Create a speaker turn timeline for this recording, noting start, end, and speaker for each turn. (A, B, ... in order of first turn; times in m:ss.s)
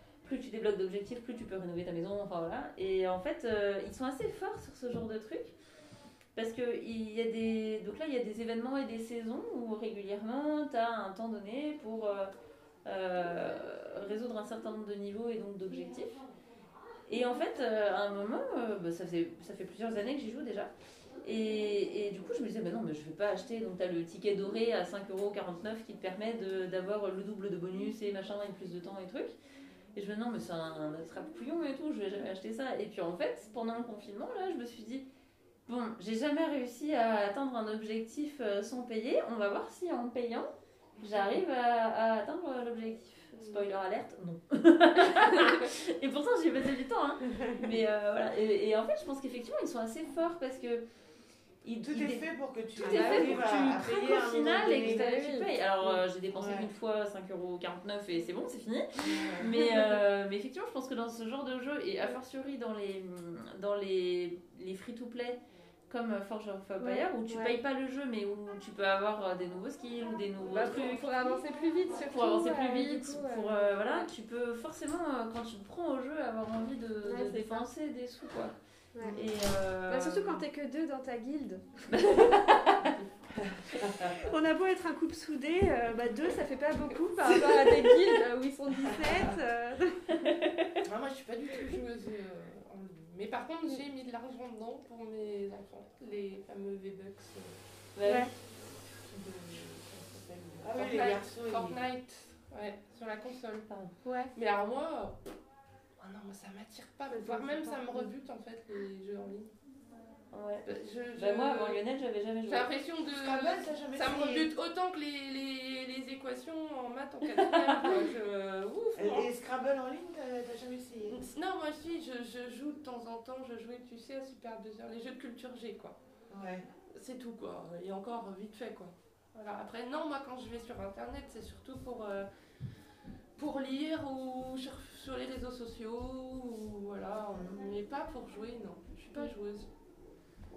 0:00.2-0:05.5 A
0:06.4-0:12.3 A
0:12.8-0:16.2 A
0:17.1-0:20.7 A
0:21.2-0:29.3 A
0:29.9-0:35.1 A
0:35.7-0:40.5 A
0:41.0-0:50.8 A
0:43.4-0:43.7 B
0:47.3-0:47.6 C
0:51.6-1:05.4 A
0:51.8-0:55.1 D
0:52.9-0:53.6 C
0:54.6-0:55.6 C
0:56.3-0:56.7 D
0:59.0-0:59.6 D
0:59.6-1:00.0 C
1:05.9-1:11.4 A
1:06.8-1:07.6 C
1:10.5-1:14.1 C
1:12.1-1:18.6 A
1:17.0-1:17.6 C
1:17.3-1:17.6 B
1:19.0-1:19.2 C
1:19.1-1:20.4 A
1:19.9-1:22.8 C
1:21.9-1:22.9 A
1:23.4-1:24.2 D
1:23.7-1:30.4 C
1:30.2-1:30.7 A
1:30.8-1:37.6 B
1:38.0-1:38.3 A
1:38.0-1:38.3 C
1:39.0-1:43.7 B
1:40.6-1:41.8 D
1:44.0-1:44.3 C
1:44.3-1:45.2 B
1:46.0-1:49.5 B
1:47.1-1:48.1 C
1:50.3-1:52.7 A
1:50.7-1:51.8 B
1:52.5-1:59.3 B
1:53.1-1:54.5 D
1:57.3-1:57.8 A
1:59.0-2:01.3 D
2:01.1-2:06.0 B
2:06.3-2:06.7 D
2:06.9-2:12.3 B
2:13.4-2:19.7 B
2:17.3-2:17.6 D